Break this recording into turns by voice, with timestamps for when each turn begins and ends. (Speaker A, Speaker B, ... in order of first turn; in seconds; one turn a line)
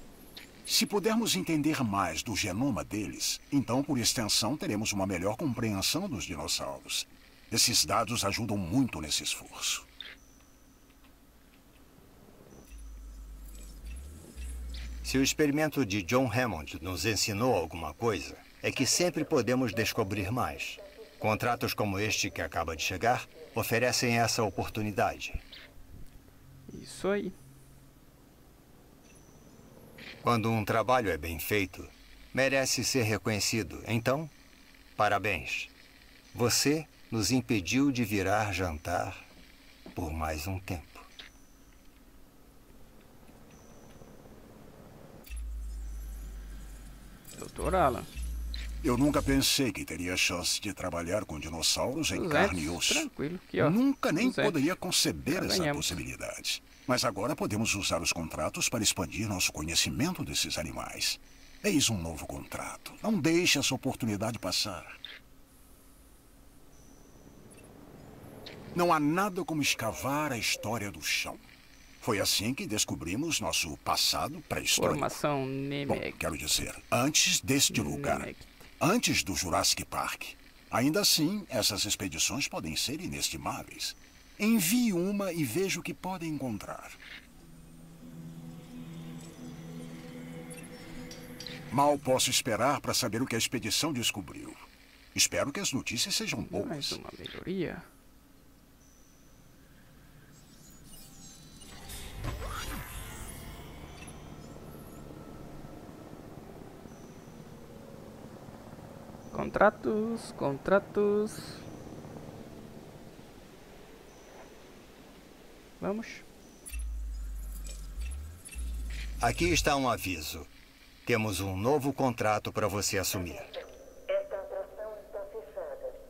Speaker A: 0.7-9.9
Speaker B: 15.0-25.4
Speaker C: 26.7-27.4
Speaker B: 30.2-34.3
Speaker B: 35.0-35.7
Speaker B: 36.3-39.2
Speaker B: 40.0-41.1
Speaker C: 47.3-48.1
Speaker A: 48.8-65.0
Speaker C: 52.1-56.0
Speaker A: 68.7-71.5
Speaker A: 72.0-75.2
Speaker C: 74.8-76.2
Speaker A: 75.9-78.3
Speaker C: 77.7-78.7
Speaker A: 78.8-87.0
Speaker A: 91.7-97.0
Speaker C: 96.4-97.8
Speaker C: 109.3-111.6
Speaker C: 115.8-116.3
Speaker B: 119.2-120.5
Speaker B: 121.0-123.5